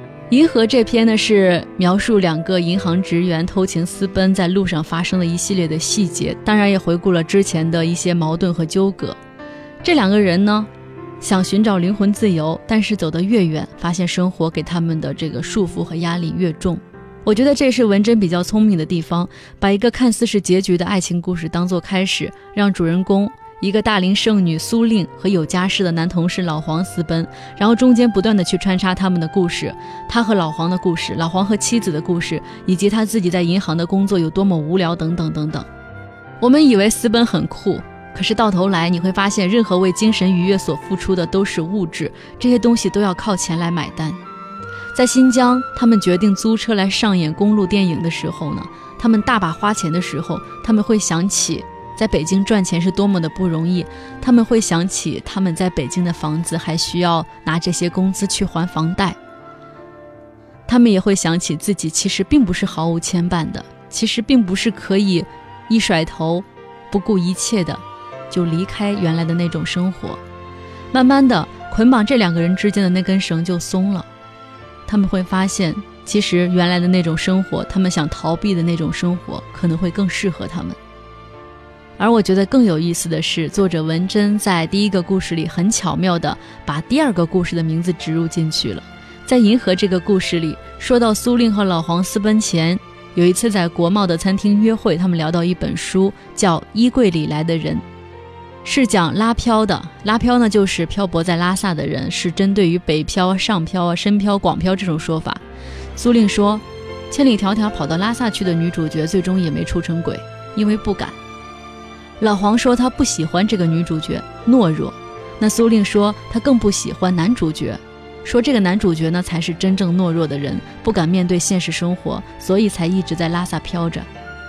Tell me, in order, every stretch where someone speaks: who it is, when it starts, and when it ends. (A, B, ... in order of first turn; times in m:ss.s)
0:00.3-0:09.2 A
0:09.8-0:10.7 A
0:11.2-0:35.7 A
0:36.4-0:44.2 A
0:44.9-0:59.2 A
1:00.7-1:10.2 A
1:10.9-1:14.1 A
1:14.9-1:20.8 A
1:22.0-1:37.8 A
1:38.6-1:45.4 A
1:46.0-1:51.2 A
1:52.2-2:04.1 A